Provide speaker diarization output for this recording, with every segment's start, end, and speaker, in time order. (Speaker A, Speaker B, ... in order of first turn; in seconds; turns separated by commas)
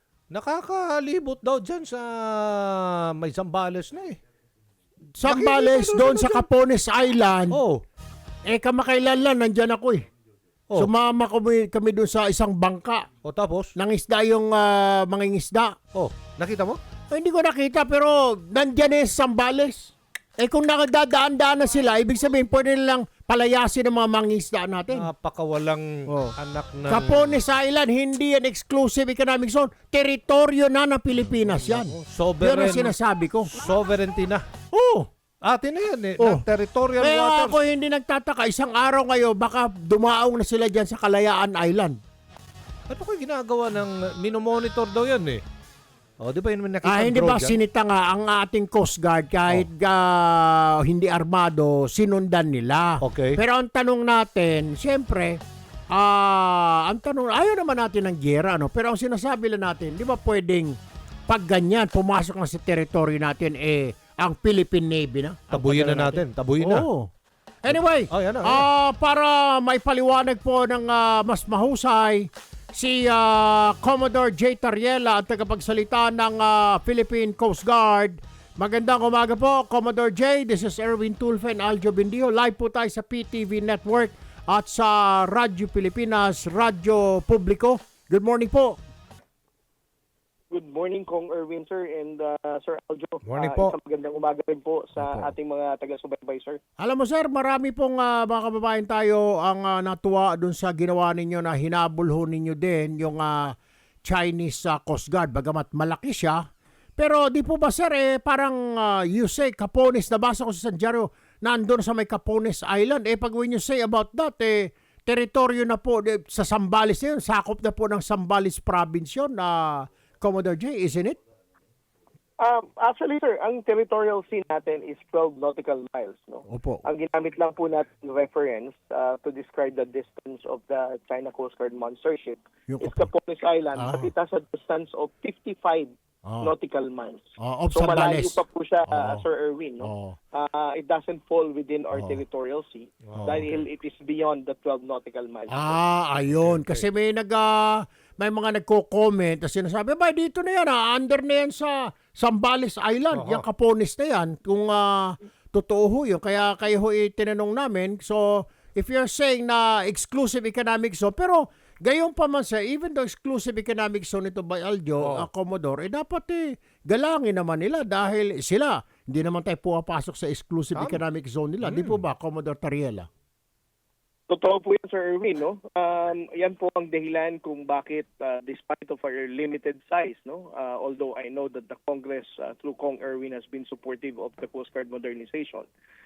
Speaker A: 0.3-4.2, Speaker B: 5.2-7.6, Speaker A: 5.2-6.5, Speaker A: 7.5-7.8, Speaker B: 8.4-10.0, Speaker B: 10.7-13.1, Speaker A: 13.2-13.7, Speaker B: 13.8-15.8, Speaker A: 15.9-16.8, Speaker B: 17.1-25.1, Speaker A: 24.9-27.3, Speaker B: 26.1-26.3, Speaker B: 26.9-33.6, Speaker A: 31.2-32.9, Speaker A: 33.5-34.4, Speaker B: 34.7-35.1, Speaker A: 35.4-37.6, Speaker B: 36.2-36.5, Speaker B: 37.0-42.0, Speaker A: 42.9-45.4, Speaker A: 46.2-47.6, Speaker B: 46.8-55.4, Speaker A: 53.0-53.4, Speaker B: 55.9-60.7, Speaker B: 61.3-67.1, Speaker A: 65.5-66.9, Speaker B: 67.6-88.8, Speaker A: 67.7-68.7, Speaker C: 90.5-96.6, Speaker A: 93.2-93.8, Speaker B: 95.0-95.3, Speaker B: 96.8-103.5, Speaker B: 104.0-106.4, Speaker B: 107.0-121.2, Speaker C: 122.4-145.8, Speaker B: 126.5-126.8, Speaker B: 132.7-133.1, Speaker B: 133.8-134.1, Speaker B: 136.2-136.5, Speaker B: 137.4-139.2, Speaker B: 139.8-140.2, Speaker B: 141.9-142.2, Speaker A: 143.1-143.5, Speaker B: 143.2-143.6, Speaker B: 145.5-173.1, Speaker A: 146.3-146.8, Speaker A: 153.1-153.4, Speaker A: 165.0-165.3, Speaker A: 170.7-171.0, Speaker A: 171.6-172.0, Speaker C: 174.3-185.7